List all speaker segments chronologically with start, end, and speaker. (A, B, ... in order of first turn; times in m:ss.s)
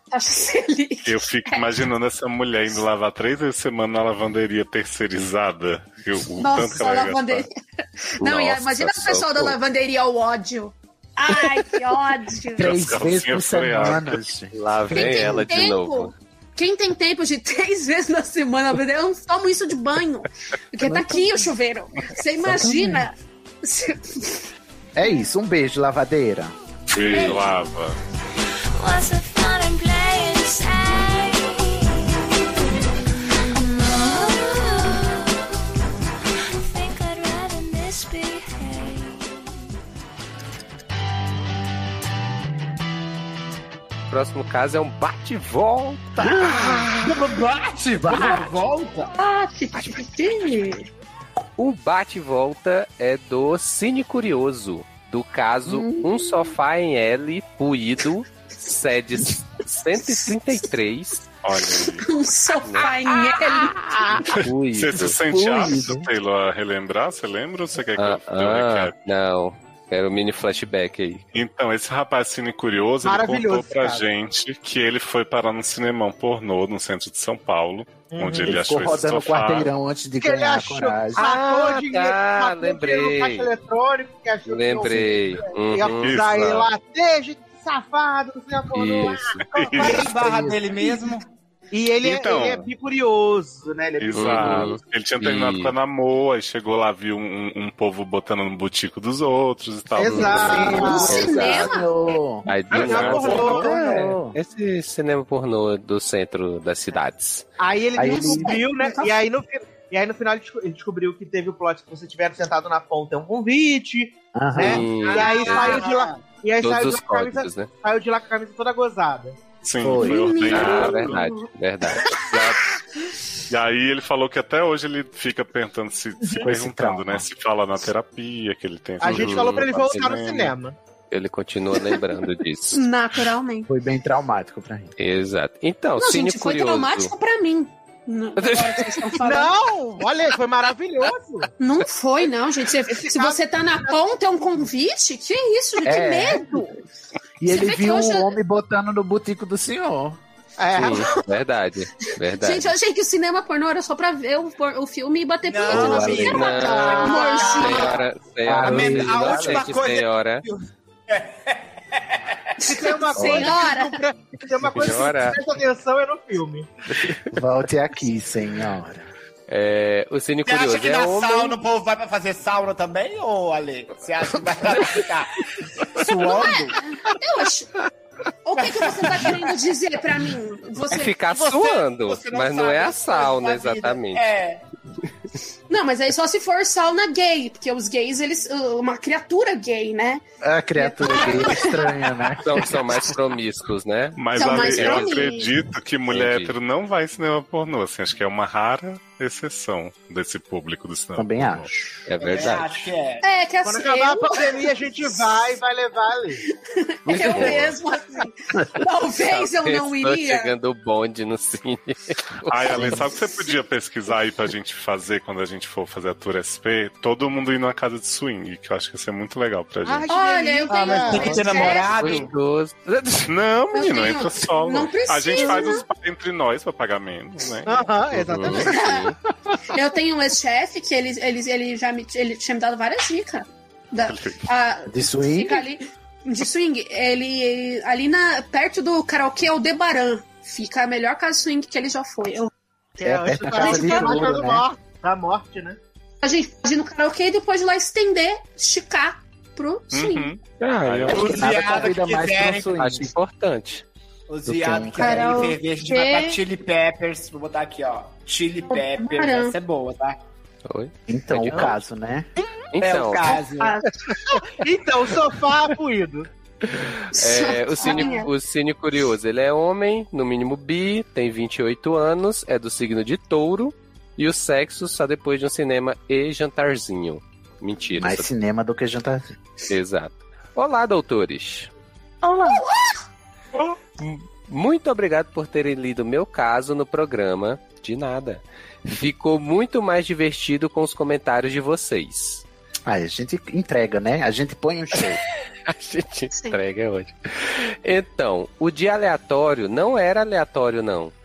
0:00.1-0:01.7 A
0:01.0-0:07.5 B
0:06.4-0:07.5 A
0:08.2-0:12.9 A
0:08.2-0:09.6 C
0:12.6-0:15.4 D
0:12.6-0:14.2 B
0:14.5-0:16.1 C
0:14.9-0:24.4 A
0:20.8-0:21.2 D
0:22.4-0:23.1 D
0:25.0-0:26.5 D
0:26.9-0:28.0 B
0:27.1-0:27.4 A
0:28.8-0:32.2 E
0:33.6-0:35.5 E
0:36.6-0:39.3 E
0:44.1-0:47.0 C
0:46.2-0:47.2 D
0:47.0-0:49.1 F
0:47.9-0:48.6 D
0:49.1-0:50.9 A
0:51.6-1:01.3 C
0:55.6-0:56.3 D
1:01.4-1:02.1 B
1:02.0-1:03.8 A
1:02.6-1:02.9 C
1:04.2-1:09.0 B
1:04.3-1:05.2 C
1:04.9-1:06.1 D
1:08.0-1:11.2 C
1:11.3-1:19.7 B
1:13.0-1:14.1 G
1:18.1-1:18.7 G
1:18.4-1:21.2 D
1:20.2-1:29.4 G
1:21.2-1:23.5 C
1:24.5-1:26.7 C
1:26.0-1:26.6 B
1:28.7-1:29.5 C
1:29.5-1:30.1 B
1:29.6-1:31.2 F
1:29.8-1:30.6 D
1:31.7-1:34.7 G
1:32.0-1:32.7 B
1:34.0-1:41.0 B
1:34.1-1:35.7 C
1:40.0-1:41.2 G
1:40.0-1:41.8 C
1:40.4-1:44.4 D
1:40.8-1:41.9 A
1:42.5-1:47.5 C
1:42.7-1:43.9 B
1:42.7-1:44.0 G
1:47.6-1:59.4 G
1:48.0-1:48.6 D
1:48.1-1:49.1 A
1:54.3-1:54.9 D
1:54.6-1:55.9 C
1:55.1-1:56.3 F
1:56.6-1:57.7 C
1:59.6-2:01.2 B
1:59.8-2:00.6 D
2:00.0-2:01.5 A
2:00.5-2:02.6 C
2:02.1-2:02.6 B
2:03.5-2:10.6 B
2:06.3-2:07.3 D
2:09.0-2:10.8 G
2:09.0-2:10.1 C
2:11.1-2:12.8 C
2:12.7-2:13.7 A
2:13.7-2:14.9 D
2:15.0-2:17.1 C
2:16.0-2:19.5 A
2:18.4-2:19.2 C
2:19.2-2:21.5 G
2:21.6-2:26.8 A
2:22.9-2:23.9 G
2:25.8-2:26.7 D
2:27.4-2:30.2 D
2:27.4-2:28.4 A
2:30.6-2:31.1 G
2:30.8-2:32.8 C
2:32.4-2:37.9 A
2:35.4-2:38.1 F
2:35.7-2:36.7 D
2:36.3-2:40.4 C
2:37.2-2:37.6 G
2:38.4-2:39.7 D
2:38.6-2:42.4 F
2:42.6-2:44.0 A
2:42.6-2:46.7 G
2:43.2-2:43.5 D
2:44.7-2:45.4 C
2:47.0-2:47.3 C
2:47.3-2:49.0 D
2:49.5-2:51.6 C
2:50.5-2:56.8 F
2:56.3-2:57.7 A
2:58.4-3:01.2 A
2:58.6-2:59.4 F
3:00.9-3:04.2 C
3:01.3-3:04.6 F
3:05.7-3:10.2 A
3:10.4-3:12.8 D
3:10.8-3:11.9 A
3:12.4-3:15.2 C
3:14.2-3:21.7 B
3:14.4-3:15.5 A
3:16.1-3:16.5 C
3:21.2-3:22.0 D
3:22.1-3:22.9 C
3:22.2-3:23.2 F
3:23.2-3:25.4 A
3:23.6-3:26.4 G
3:26.6-3:30.5 A
3:27.1-3:27.6 C
3:27.2-3:27.8 B
3:29.2-3:33.1 C
3:32.5-3:40.1 B
3:32.8-3:33.0 D
3:39.8-3:41.9 G
3:40.1-3:42.0 A
3:40.9-3:42.3 F
3:42.0-3:43.3 C
3:43.3-3:48.7 B
3:43.7-3:45.8 A
3:47.6-3:48.8 G
3:48.3-3:49.2 C
3:48.7-3:49.1 A
3:49.7-4:02.5 A
3:54.0-3:54.4 B
3:54.9-3:55.6 D
4:03.0-4:05.8 G
4:03.0-4:04.6 D
4:03.6-4:04.2 A
4:06.2-4:10.3 A
4:09.9-4:11.2 B
4:10.6-4:11.4 C
4:11.1-4:12.7 F
4:11.1-4:13.1 D
4:12.8-4:13.8 C
4:14.3-4:20.2 F
4:14.4-4:15.5 D
4:15.0-4:16.4 A
4:18.7-4:19.5 A
4:20.7-4:21.8 C
4:21.1-4:22.3 D
4:22.7-4:23.4 C
4:22.8-4:23.8 F
4:23.6-4:24.0 A
4:24.3-4:26.3 G
4:26.6-4:38.3 C
4:27.1-4:28.3 A
4:38.0-4:39.3 D
4:39.7-4:41.7 C
4:42.2-4:42.9 A
4:44.0-4:52.4 C
4:52.9-4:55.2 D
4:55.7-5:01.1 C
4:56.3-4:56.6 A